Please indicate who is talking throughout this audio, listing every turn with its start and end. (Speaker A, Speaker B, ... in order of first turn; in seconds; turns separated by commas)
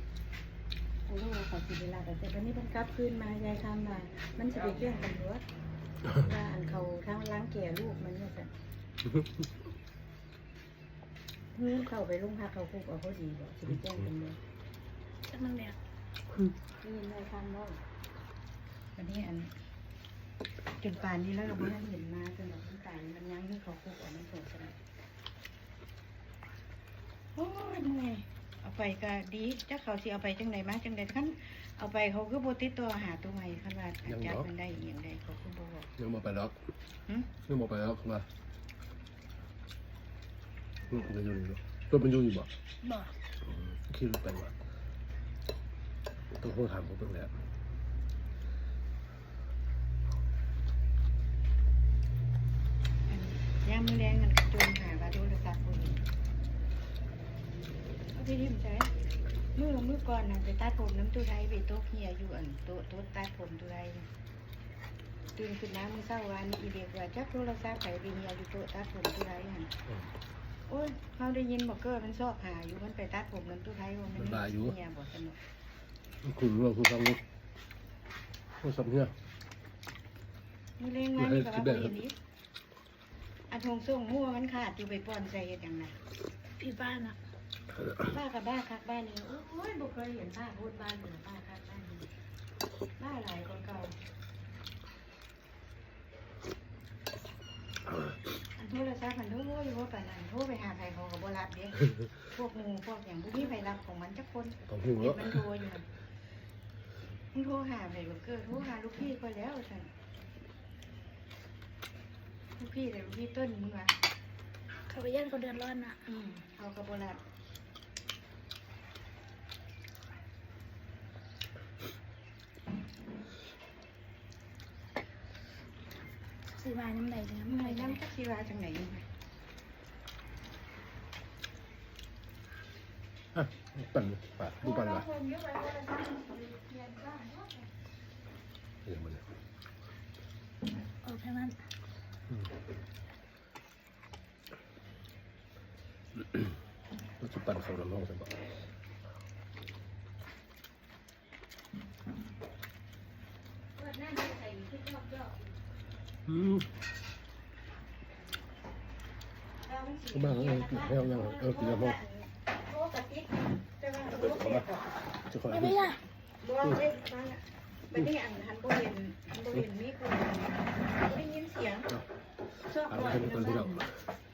Speaker A: 1.1-5.4, Speaker A: 6.2-8.5, Speaker A: 11.6-14.4, Speaker B: 15.3-15.8, Speaker A: 16.8-17.8, Speaker A: 18.9-19.5, Speaker A: 20.8-24.8, Speaker A: 27.3-35.9, Speaker C: 34.0-34.5, Speaker C: 36.0-36.5, Speaker C: 37.4-38.3, Speaker C: 40.9-42.5, Speaker B: 42.8-43.1, Speaker C: 43.4-44.5, Speaker C: 46.4-47.3, Speaker A: 53.1-56.0, Speaker A: 58.1-58.9, Speaker A: 59.5-64.1, Speaker A: 65.3-69.7, Speaker A: 70.7-75.4, Speaker C: 74.2-74.7, Speaker C: 76.2-77.2, Speaker C: 78.6-79.1, Speaker A: 80.8-82.1, Speaker C: 81.2-82.0, Speaker A: 83.5-86.0, Speaker B: 86.6-87.2, Speaker A: 88.1-92.1, Speaker A: 93.0-93.9, Speaker A: 98.5-105.8, Speaker C: 104.7-105.4, Speaker A: 107.3-109.9, Speaker A: 112.6-113.9, Speaker B: 114.9-116.0, Speaker A: 116.0-117.2, Speaker B: 126.5-128.0, Speaker A: 127.4-129.0, Speaker C: 133.3-135.1, Speaker A: 134.6-137.4, Speaker B: 136.4-137.4, Speaker C: 138.8-139.2, Speaker B: 141.0-141.6, Speaker C: 146.2-146.5, Speaker C: 147.2-148.3, Speaker A: 153.8-155.4, Speaker C: 156.2-156.7, Speaker A: 159.6-164.9, Speaker C: 160.1-162.0, Speaker C: 164.2-164.7, Speaker C: 165.3-166.0, Speaker B: 165.5-166.0, Speaker A: 166.4-171.9, Speaker A: 172.7-173.9, Speaker C: 172.8-173.9